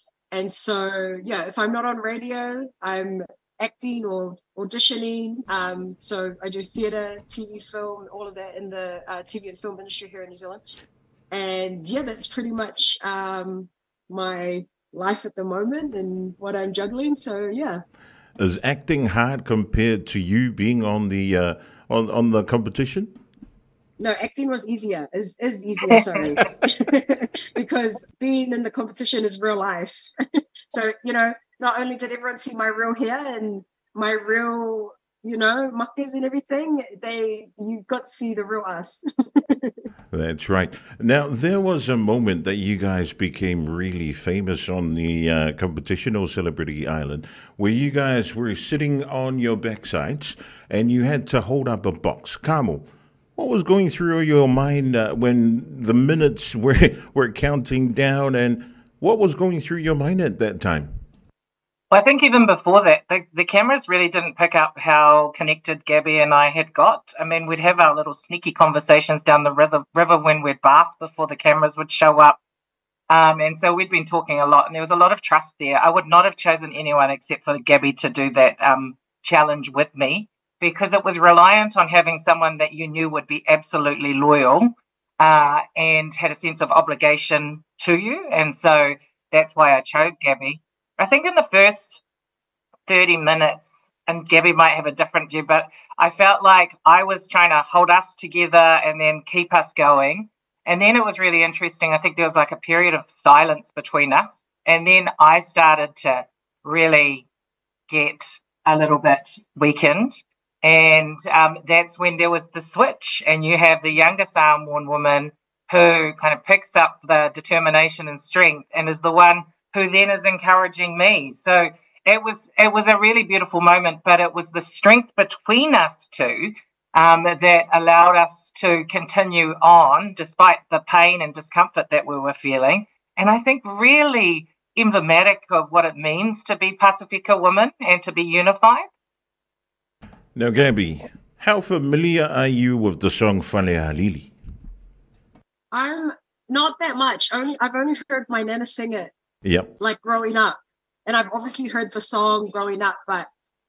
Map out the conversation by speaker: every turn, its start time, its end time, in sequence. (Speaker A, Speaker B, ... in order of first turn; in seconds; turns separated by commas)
Speaker A: 0.3-10.6, Speaker A: 11.3-17.8, Speaker B: 18.4-23.1, Speaker A: 24.0-30.1, Speaker C: 25.9-26.4, Speaker A: 30.7-39.8, Speaker B: 40.1-60.9, Speaker C: 61.9-72.4, Speaker C: 73.1-92.0, Speaker C: 92.9-107.3, Speaker C: 107.9-138.8, Speaker B: 140.3-144.3, Speaker A: 145.7-149.1, Speaker B: 149.4-149.7, Speaker A: 149.8-153.3